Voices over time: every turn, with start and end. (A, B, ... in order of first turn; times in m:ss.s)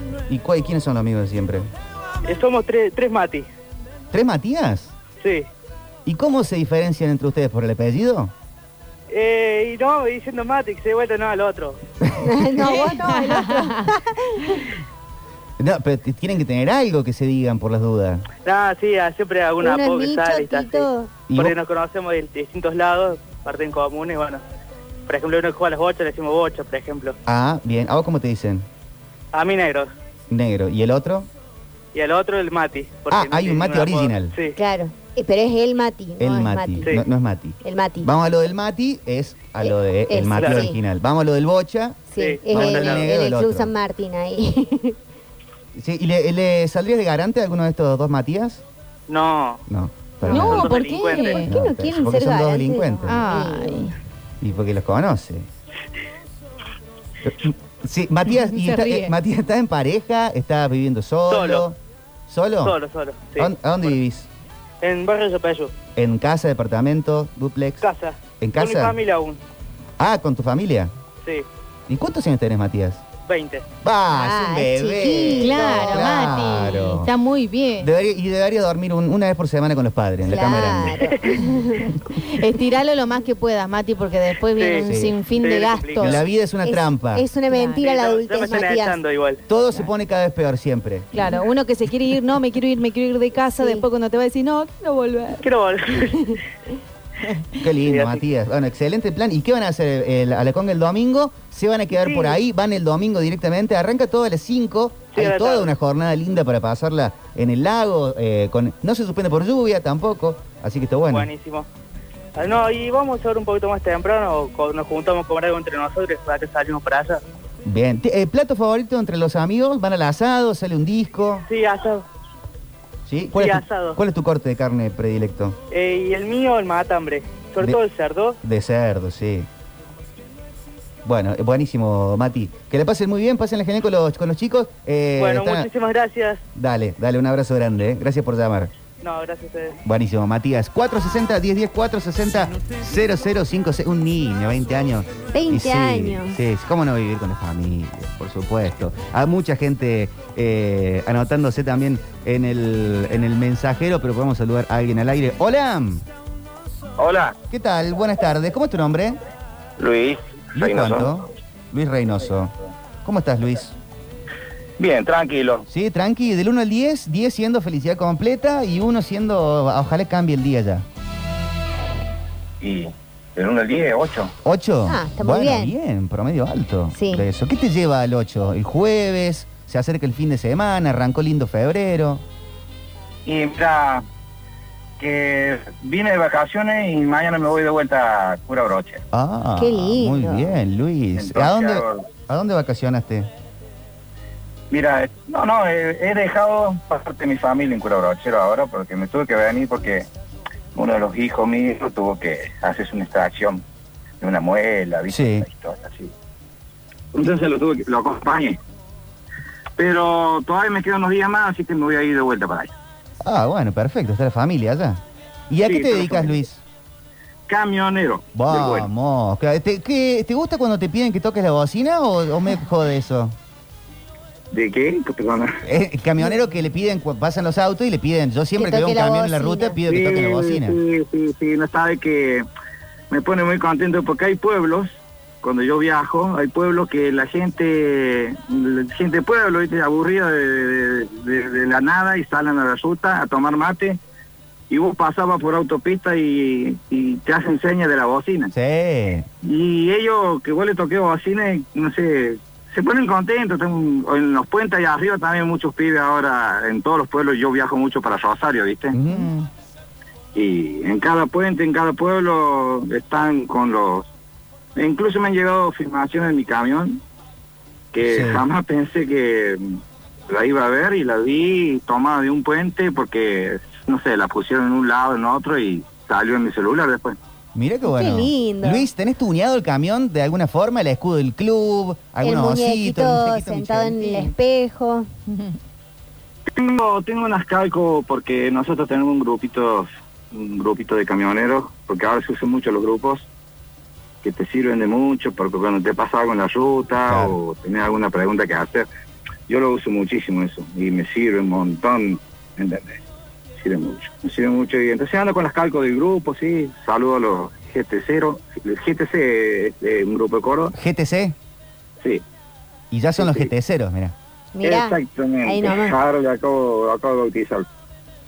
0:00.3-0:01.7 A
0:02.2-0:03.4 B
0:04.1-0:04.9 A
0:05.2-0:05.5 B
0:06.0-0:08.3 A
0:09.1-0:11.8 B
0:12.0-0:12.5 A
0:12.2-0:14.6 C
0:12.6-0:13.9 D
0:15.6-0:18.2 A
0:18.4-0:24.4 B
0:19.6-0:21.2 C
0:21.3-0:21.5 A
0:25.1-0:27.2 B
0:27.2-0:28.6 A
0:29.3-0:29.9 B
0:30.3-0:31.3 A
0:31.9-0:34.6 B
0:33.1-0:34.4 A
0:34.5-0:36.9 C
0:36.2-0:43.7 A
0:37.6-0:38.1 C
0:39.6-0:40.8 C
0:40.3-0:40.7 B
0:42.1-0:45.0 C
0:42.2-0:43.1 B
0:45.7-0:48.6 A
0:49.1-0:49.6 B
0:49.7-0:53.2 A
0:50.2-0:51.5 D
0:50.3-0:51.4 B
0:51.1-0:53.9 C
0:53.0-0:53.9 D
0:54.4-0:55.4 A
0:57.2-1:02.8 A
0:58.5-0:59.1 D
1:01.3-1:01.6 B
1:02.6-1:03.5 B
1:03.4-1:04.3 A
1:04.8-1:05.7 B
1:06.0-1:07.8 A
1:07.8-1:09.4 B
1:08.4-1:09.0 A
1:10.0-1:10.9 A
1:11.9-1:13.0 A
1:13.2-1:13.6 B
1:13.8-1:17.1 A
1:14.1-1:16.4 C
1:15.4-1:17.9 D
1:17.8-1:21.1 A
1:20.2-1:22.0 C
1:22.1-1:26.2 D
1:24.6-1:26.1 B
1:24.8-1:25.2 A
1:26.0-1:27.2 A
1:26.6-1:29.0 C
1:27.5-1:27.8 D
1:27.8-1:29.4 B
1:29.5-1:31.1 A
1:31.1-1:35.4 D
1:33.6-1:33.8 C
1:35.4-1:36.4 B
1:37.6-1:51.3 A
1:37.8-1:38.2 B
1:41.9-1:42.4 B
1:45.1-1:45.7 B
1:51.1-1:51.6 B
1:52.3-1:57.2 B
1:57.6-2:01.4 A
2:01.4-2:02.0 B
2:03.0-2:05.6 A
2:03.3-2:04.0 B
2:05.7-2:08.4 B
2:08.4-2:09.5 A
2:11.0-2:15.7 A
2:15.2-2:16.4 B
2:16.5-2:18.7 A
2:19.0-2:19.8 B
2:19.8-2:36.0 A
2:25.3-2:26.4 C
2:37.0-2:37.4 E
2:37.5-2:39.2 A
2:39.8-2:41.2 E
2:40.5-2:42.5 A
2:43.0-2:43.7 A
2:44.8-2:45.6 E
2:45.7-2:50.8 A
2:52.6-2:54.3 E
2:54.4-3:02.2 A
2:54.9-2:55.7 C
2:56.9-2:57.2 C
3:03.2-3:04.0 E
3:05.0-3:09.0 E
3:09.1-3:13.3 A
3:09.6-3:10.5 C
3:11.2-3:12.0 E
3:14.7-3:20.1 E
3:20.7-3:23.6 E
3:24.2-3:26.1 E
3:25.1-3:25.4 A
3:27.1-3:28.6 E
3:29.8-3:32.7 E
3:33.2-3:36.6 A
3:35.6-3:36.4 E
3:37.5-3:38.9 E
3:38.3-3:43.4 A
3:44.5-3:45.6 E
3:45.6-3:50.8 A
3:48.6-3:49.8 C
3:49.9-3:52.4 E
3:53.1-4:04.0 E
4:04.7-4:08.5 E
4:08.5-4:09.3 A
4:09.4-4:19.0 E
4:18.9-4:19.3 A
4:19.0-4:19.5 D
4:20.3-4:24.1 E
4:24.8-4:27.0 E
4:27.9-4:37.2 E
4:28.0-4:28.4 A
4:37.5-4:44.3 A
4:37.8-4:38.8 C
4:42.2-4:45.1 C
4:45.3-4:45.5 D
4:46.5-4:53.3 E
4:54.2-4:58.9 E
4:57.1-4:57.3 A
4:59.5-5:03.0 E
5:03.6-5:10.7 E
5:10.7-5:11.4 A
5:12.9-5:14.1 A
5:13.2-5:13.5 E
5:14.6-5:16.0 C
5:14.6-5:17.6 E